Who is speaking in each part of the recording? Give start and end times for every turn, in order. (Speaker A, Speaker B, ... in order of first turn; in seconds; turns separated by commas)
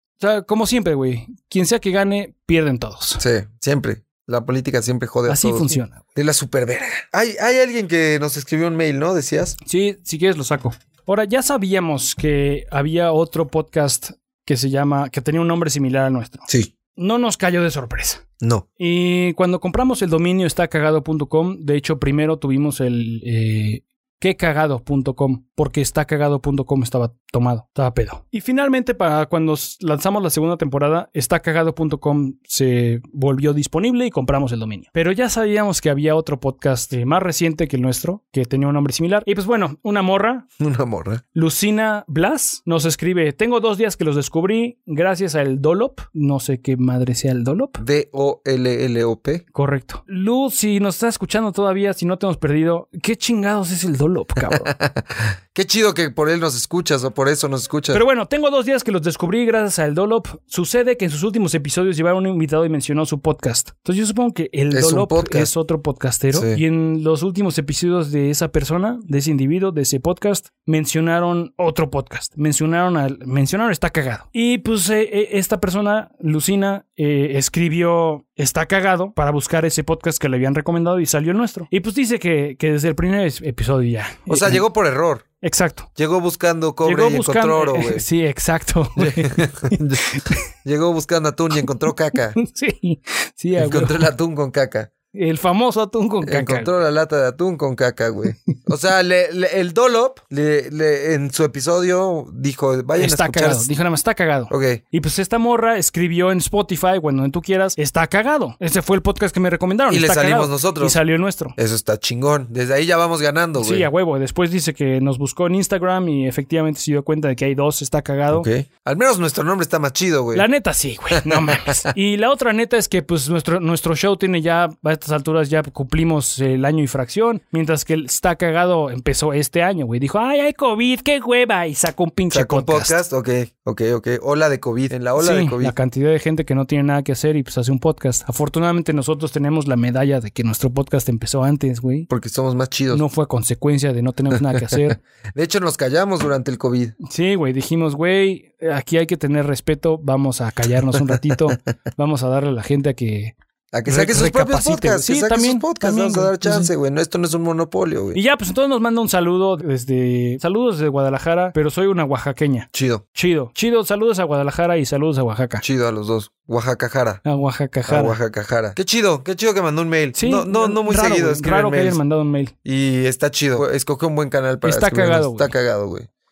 Speaker A: 0.2-3.2, Speaker B: 3.2-9.6, Speaker A: 5.3-6.0, Speaker A: 9.6-18.2, Speaker A: 18.8-40.5, Speaker B: 40.6-41.2, Speaker A: 41.3-47.8, Speaker B: 47.8-49.4, Speaker A: 49.5-54.7, Speaker B: 54.4-58.0, Speaker A: 57.9-84.6, Speaker B: 64.7-65.5, Speaker B: 66.3-66.6, Speaker B: 84.3-85.3, Speaker A: 85.4-85.9, Speaker B: 86.0-88.1, Speaker A: 86.8-90.5, Speaker B: 89.0-92.4, Speaker A: 92.4-94.1, Speaker B: 93.6-94.9, Speaker A: 95.1-96.7, Speaker B: 96.2-103.7, Speaker A: 103.0-111.6, Speaker B: 104.5-104.8, Speaker B: 109.9-111.0, Speaker B: 111.6-113.9, Speaker A: 113.6-118.5, Speaker B: 118.3-120.5, Speaker A: 120.3-132.9, Speaker B: 121.1-121.8, Speaker B: 132.3-135.7, Speaker A: 135.2-142.1, Speaker B: 142.1-143.0, Speaker A: 142.9-145.0, Speaker B: 144.4-146.9, Speaker A: 147.0-153.3, Speaker B: 153.7-158.2, Speaker A: 153.9-156.7, Speaker A: 158.1-165.7, Speaker B: 162.7-163.0, Speaker B: 165.6-167.2, Speaker A: 167.2-168.2, Speaker B: 167.9-172.0, Speaker A: 170.2-172.5, Speaker B: 172.7-176.1, Speaker A: 174.6-175.5